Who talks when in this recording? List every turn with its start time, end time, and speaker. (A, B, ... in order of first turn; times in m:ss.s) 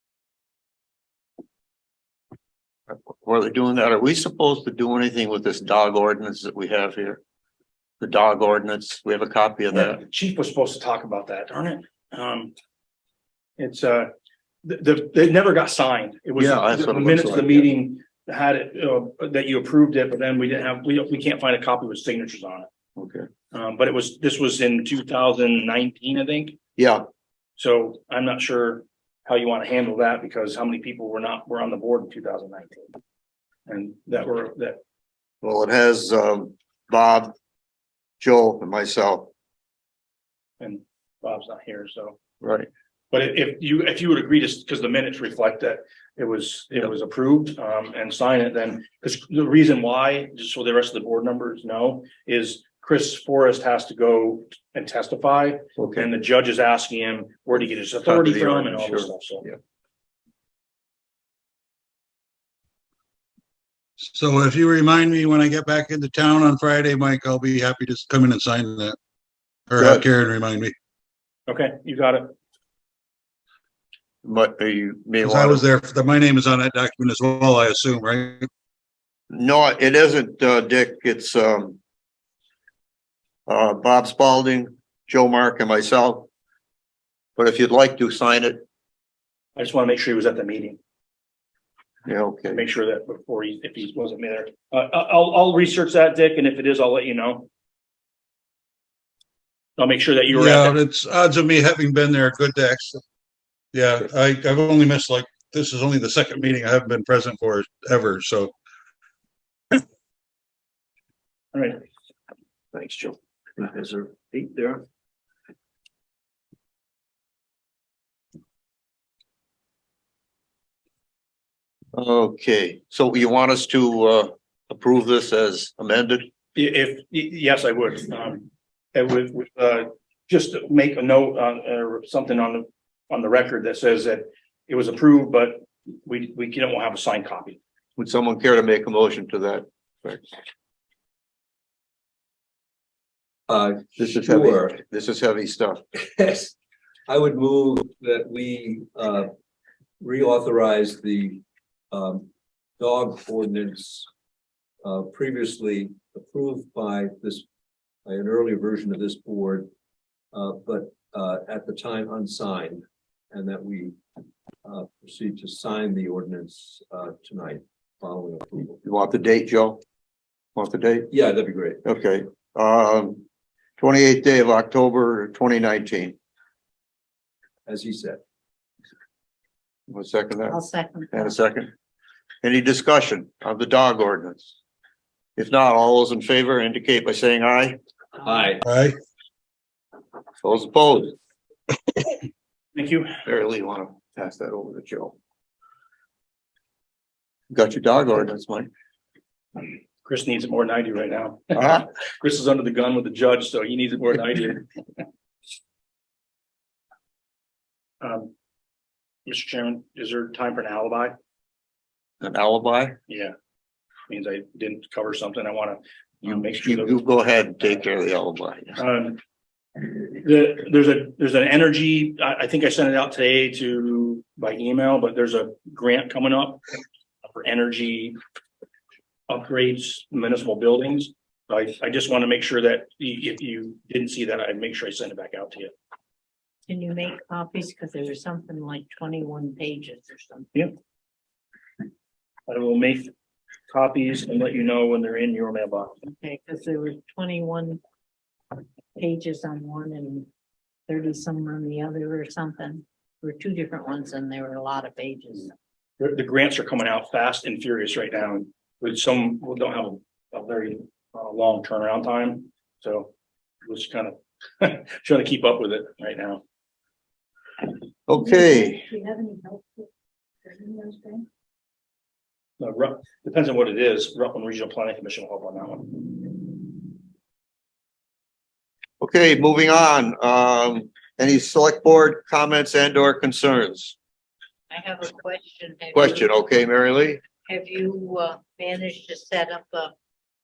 0:02.9-0:07.2 A
0:08.0-0:10.0 A
0:09.7-0:12.5 B
0:13.6-0:14.1 B
0:14.6-0:22.7 B
0:16.4-0:17.7 A
0:23.0-0:23.3 A
0:23.5-0:26.6 B
0:26.8-0:27.0 A
0:27.6-0:33.0 B
0:33.7-0:34.8 B
0:35.4-0:37.3 A
0:38.2-0:39.3 A
0:40.6-0:42.2 B
0:42.4-0:42.7 A
0:43.1-0:59.4 B
0:55.8-0:56.1 A
0:58.0-0:59.6 A
1:04.0-1:09.0 C
1:09.7-1:10.8 C
1:09.8-1:10.1 A
1:11.5-1:12.3 B
1:14.2-1:15.6 A
1:15.2-1:18.5 C
1:19.3-1:21.8 A
1:23.5-1:26.3 A
1:27.4-1:28.6 A
1:29.6-1:30.8 B
1:32.1-1:32.6 A
1:32.5-1:37.5 B
1:39.8-1:40.8 B
1:40.3-1:43.0 C
1:43.7-1:48.5 C
1:51.5-1:51.8 B
1:52.7-1:53.2 A
1:53.6-1:54.8 D
2:02.0-2:06.3 A
2:06.6-2:17.6 B
2:18.0-2:20.3 A
2:23.5-2:24.8 D
2:24.0-2:25.8 A
2:26.2-2:26.6 D
2:27.1-2:29.3 D
2:30.0-2:32.3 D
2:32.8-2:34.1 D
2:34.8-2:37.5 D
2:38.0-2:39.7 D
2:40.3-2:44.0 D
2:44.6-2:48.7 D
2:48.8-2:49.8 A
2:50.6-2:51.1 A
2:51.1-2:51.8 D
2:51.8-2:53.2 A
2:53.8-2:56.2 A
2:57.7-2:58.2 D
2:59.9-3:00.6 A
3:00.5-3:01.4 E
3:01.1-3:01.7 A
3:02.4-3:04.5 A
3:05.4-3:07.8 A
3:08.2-3:08.6 D
3:08.6-3:09.0 C
3:10.4-3:11.2 A
3:12.8-3:13.2 B
3:13.3-3:15.2 A
3:17.5-3:18.7 A
3:20.0-3:24.7 B
3:21.6-3:21.9 A
3:28.0-3:28.3 B
3:29.3-3:31.1 B
3:32.2-3:33.0 A
3:33.1-3:33.3 B
3:34.1-3:37.0 B
3:36.2-3:38.8 A
3:38.8-3:39.2 B
3:39.8-3:46.6 B
3:47.2-3:48.2 B
3:49.3-3:55.7 B
3:56.7-4:00.5 E
4:02.5-4:03.1 B
4:03.7-4:06.0 B
4:06.2-4:07.8 E
4:09.0-4:10.3 E
4:10.9-4:15.5 E
4:16.0-4:23.1 B
4:23.6-4:26.4 B
4:28.1-4:28.8 A
4:28.2-4:29.7 E
4:30.5-4:31.2 E
4:32.6-4:36.6 B
4:39.0-4:44.0 A
4:44.7-4:46.3 E
4:46.0-4:47.2 A
4:47.4-4:49.9 E